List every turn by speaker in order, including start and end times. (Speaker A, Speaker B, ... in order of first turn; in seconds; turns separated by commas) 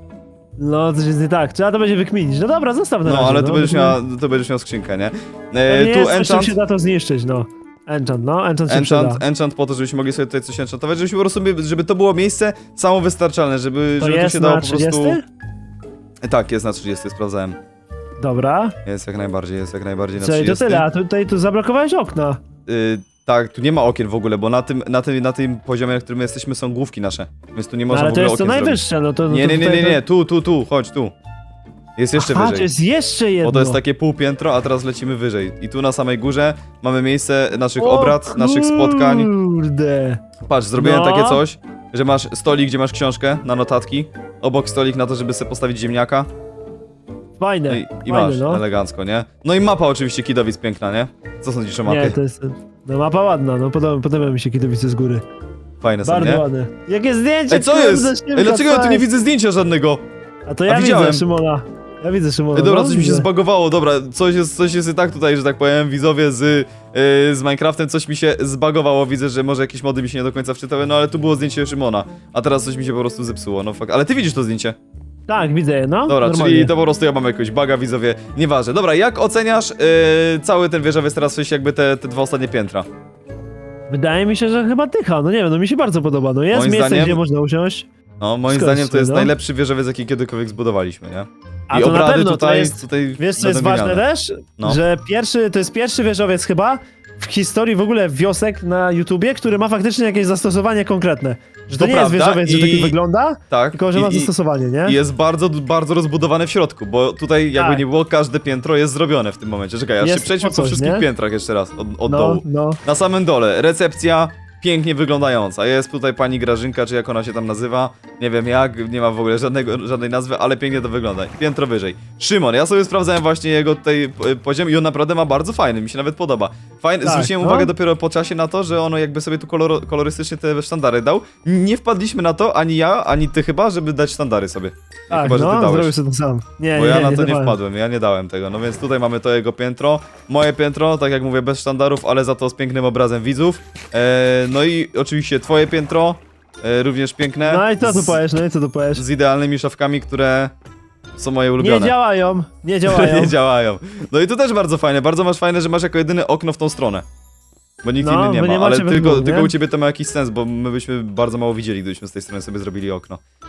Speaker A: 0.6-4.0, Speaker B: 3.0-6.6, Speaker A: 5.7-9.2, Speaker B: 8.7-15.2, Speaker A: 14.0-15.2, Speaker B: 16.2-17.6, Speaker A: 18.2-18.8, Speaker B: 18.9-20.9, Speaker A: 20.2-22.4, Speaker B: 22.7-31.1, Speaker A: 27.9-30.0, Speaker B: 32.0-32.7, Speaker A: 32.1-33.8, Speaker B: 33.4-39.3, Speaker A: 37.8-40.2, Speaker B: 40.4-46.3, Speaker A: 40.8-41.4, Speaker A: 47.4-48.6, Speaker B: 47.7-52.2, Speaker A: 51.9-55.2, Speaker B: 55.8-56.4, Speaker A: 56.0-59.1, Speaker B: 57.5-60.0, Speaker A: 60.5-63.3, Speaker B: 60.7-61.2, Speaker B: 62.5-74.8, Speaker A: 75.3-76.7, Speaker B: 76.1-82.9, Speaker A: 83.9-87.9, Speaker B: 86.5-87.2, Speaker B: 88.2-94.0, Speaker A: 88.5-89.3, Speaker A: 91.7-105.0, Speaker B: 101.8-103.0, Speaker B: 103.5-104.3, Speaker B: 104.8-135.9, Speaker A: 107.5-107.8, Speaker A: 110.0-111.1, Speaker A: 112.1-112.8, Speaker A: 127.0-127.7, Speaker A: 135.1-137.6, Speaker B: 136.7-148.2, Speaker A: 147.4-149.0, Speaker B: 148.9-150.5, Speaker B: 151.2-151.9, Speaker A: 151.6-153.3, Speaker B: 152.9-157.1, Speaker B: 157.8-163.2, Speaker A: 158.0-159.5